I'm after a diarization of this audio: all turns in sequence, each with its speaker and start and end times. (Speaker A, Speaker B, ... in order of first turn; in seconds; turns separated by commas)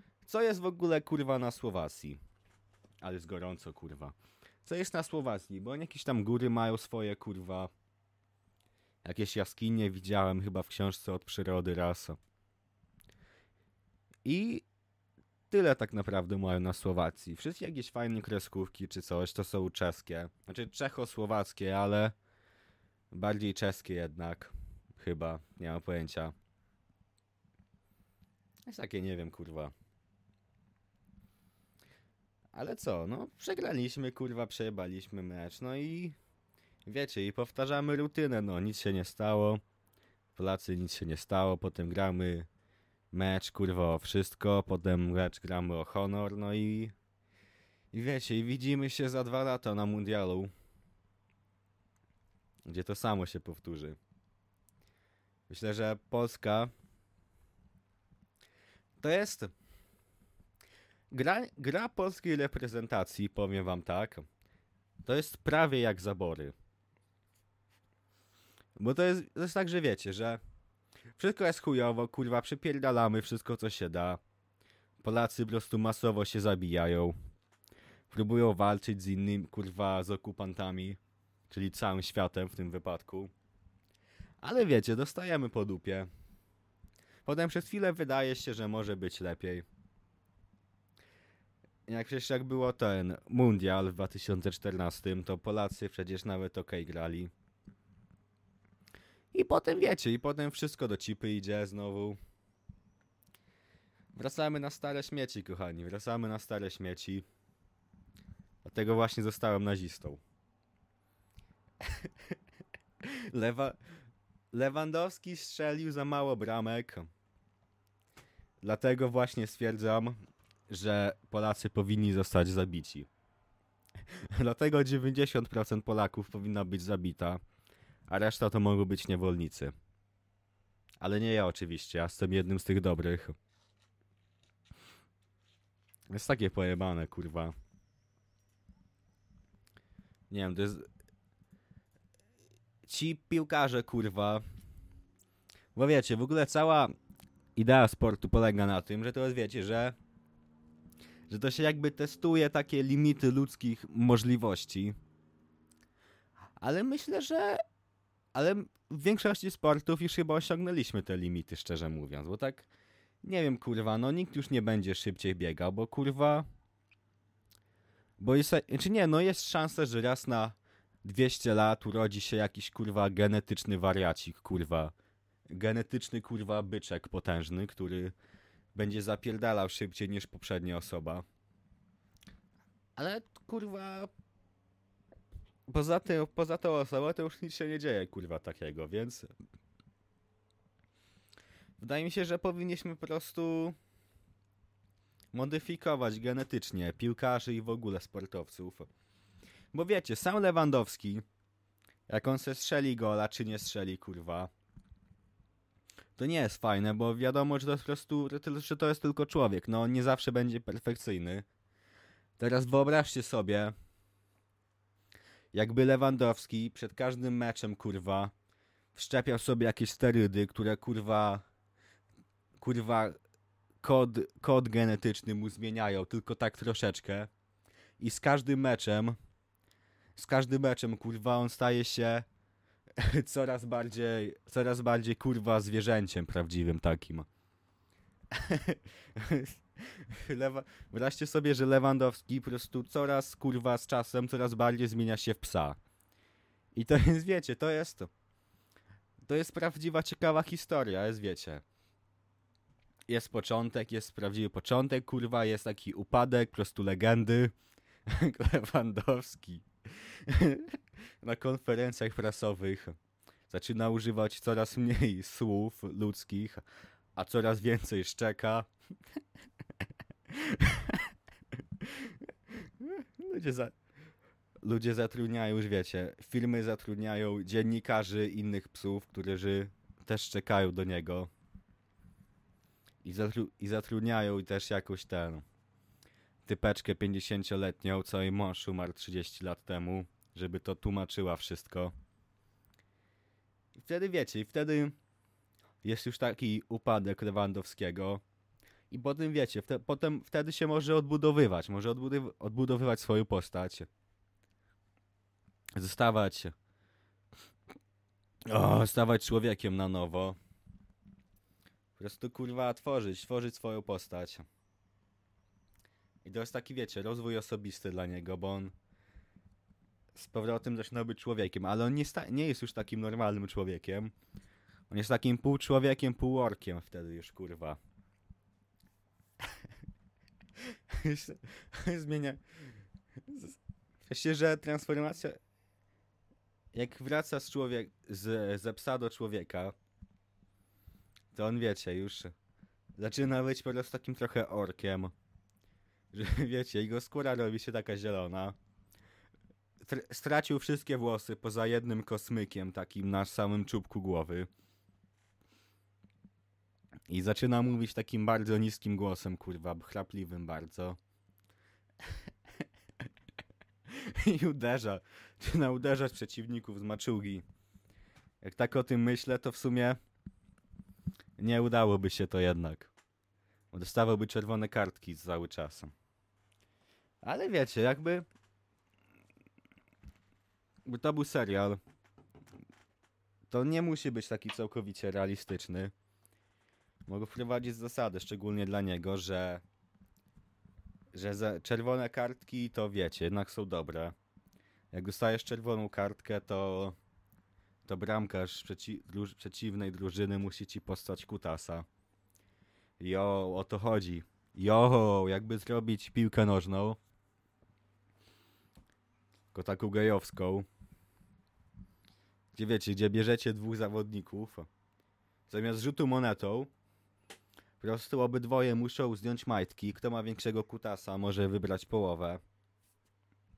Speaker A: 0.2-2.2, Speaker A: 3.0-7.7, Speaker A: 9.0-12.2, Speaker A: 14.2-14.6, Speaker A: 15.5-22.1, Speaker A: 23.1-26.3, Speaker A: 28.7-29.7, Speaker A: 32.5-36.1, Speaker A: 36.9-39.6, Speaker A: 40.3-42.5, Speaker A: 43.1-46.9, Speaker A: 47.9-50.5, Speaker A: 52.7-54.0, Speaker A: 55.5-56.7, Speaker A: 59.0-59.5, Speaker A: 61.1-64.2, Speaker A: 65.0-66.5, Speaker A: 68.8-70.4, Speaker A: 71.2-74.2, Speaker A: 75.0-77.1, Speaker A: 78.1-81.0, Speaker A: 81.5-83.3, Speaker A: 84.4-86.1, Speaker A: 87.2-89.7, Speaker A: 91.9-97.3, Speaker A: 99.3-102.2, Speaker A: 104.1-107.2, Speaker A: 108.6-110.2, Speaker A: 113.0-113.8, Speaker A: 114.5-117.1, Speaker A: 118.6-120.2, Speaker A: 120.7-123.1, Speaker A: 124.1-127.4, Speaker A: 128.1-129.7, Speaker A: 131.0-133.3, Speaker A: 136.1-137.5, Speaker A: 140.3-140.9, Speaker A: 142.8-144.4, Speaker A: 145.7-146.9, Speaker A: 147.6-149.9, Speaker A: 151.3-154.9, Speaker A: 156.6-157.6, Speaker A: 158.3-162.7, Speaker A: 163.2-166.4, Speaker A: 168.2-174.9, Speaker A: 175.5-178.1, Speaker A: 178.7-181.2, Speaker A: 182.9-184.1, Speaker A: 185.7-189.3, Speaker A: 191.8-193.8, Speaker A: 195.3-198.9, Speaker A: 199.7-201.2, Speaker A: 202.1-204.5, Speaker A: 206.2-211.4, Speaker A: 212.4-213.7, Speaker A: 215.5-218.3, Speaker A: 218.9-221.4, Speaker A: 222.6-223.2, Speaker A: 223.8-227.3, Speaker A: 228.0-229.2, Speaker A: 230.2-232.2, Speaker A: 233.0-237.3, Speaker A: 238.3-245.8, Speaker A: 246.7-248.1, Speaker A: 249.2-251.6, Speaker A: 253.1-257.5, Speaker A: 258.1-263.0, Speaker A: 263.5-266.6, Speaker A: 267.1-268.7, Speaker A: 270.3-271.0, Speaker A: 271.8-273.7, Speaker A: 274.6-281.3, Speaker A: 283.0-285.4, Speaker A: 286.4-291.9, Speaker A: 293.8-294.9, Speaker A: 295.8-298.2, Speaker A: 298.9-303.9, Speaker A: 305.8-306.5, Speaker A: 308.5-310.4, Speaker A: 311.9-314.4, Speaker A: 316.2-318.7, Speaker A: 320.1-324.1, Speaker A: 324.9-327.8, Speaker A: 330.9-332.4, Speaker A: 333.3-335.4, Speaker A: 336.7-339.7, Speaker A: 341.3-342.3, Speaker A: 343.0-345.1, Speaker A: 346.1-348.5, Speaker A: 349.8-354.5, Speaker A: 357.1-361.0, Speaker A: 363.9-367.4, Speaker A: 368.4-370.0, Speaker A: 371.4-372.9, Speaker A: 373.7-375.9, Speaker A: 377.2-378.2, Speaker A: 380.9-381.8, Speaker A: 383.5-385.9, Speaker A: 387.1-389.6, Speaker A: 391.1-394.1, Speaker A: 394.9-396.9, Speaker A: 397.8-401.9, Speaker A: 403.0-407.0, Speaker A: 409.5-410.6, Speaker A: 412.5-414.7, Speaker A: 415.5-416.7, Speaker A: 417.8-422.4